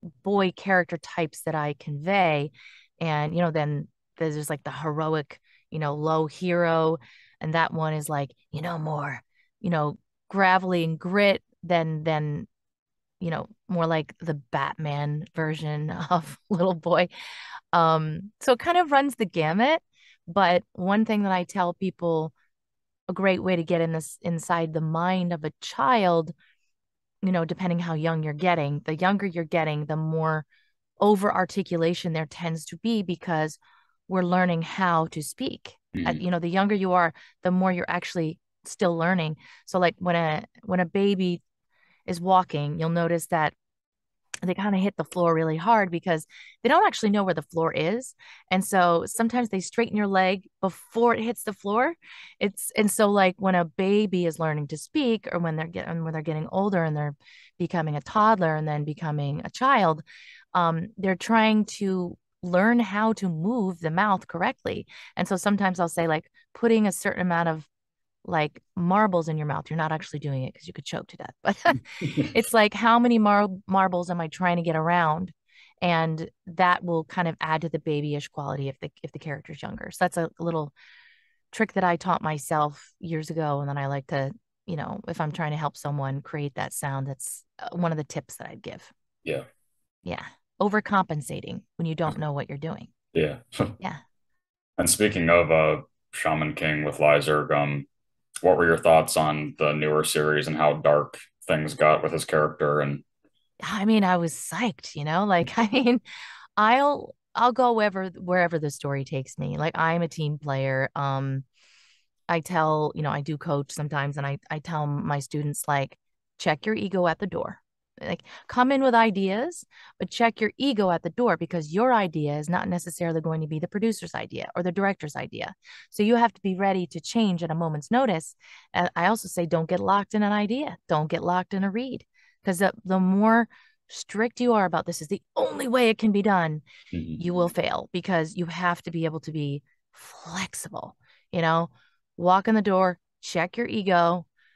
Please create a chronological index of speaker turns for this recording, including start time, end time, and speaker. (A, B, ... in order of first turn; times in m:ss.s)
0:00.2-0:12.5 A
0:13.2-0:17.1 A
0:17.7-0:22.3 A
0:23.1-0:26.3 A
0:27.2-0:30.5 A
0:31.0-0:41.4 A
0:35.9-0:36.2 B
0:42.1-0:43.6 A
0:44.4-1:00.0 A
1:00.5-1:07.7 A
1:08.2-1:20.7 A
1:21.5-1:28.9 A
1:30.0-1:32.9 A
1:33.1-1:33.7 B
1:34.8-1:37.9 B
1:38.4-1:43.0 B
1:43.6-1:46.0 A
1:46.6-1:51.4 A
1:52.3-2:16.6 A
2:16.9-2:17.2 B
2:17.2-2:24.3 A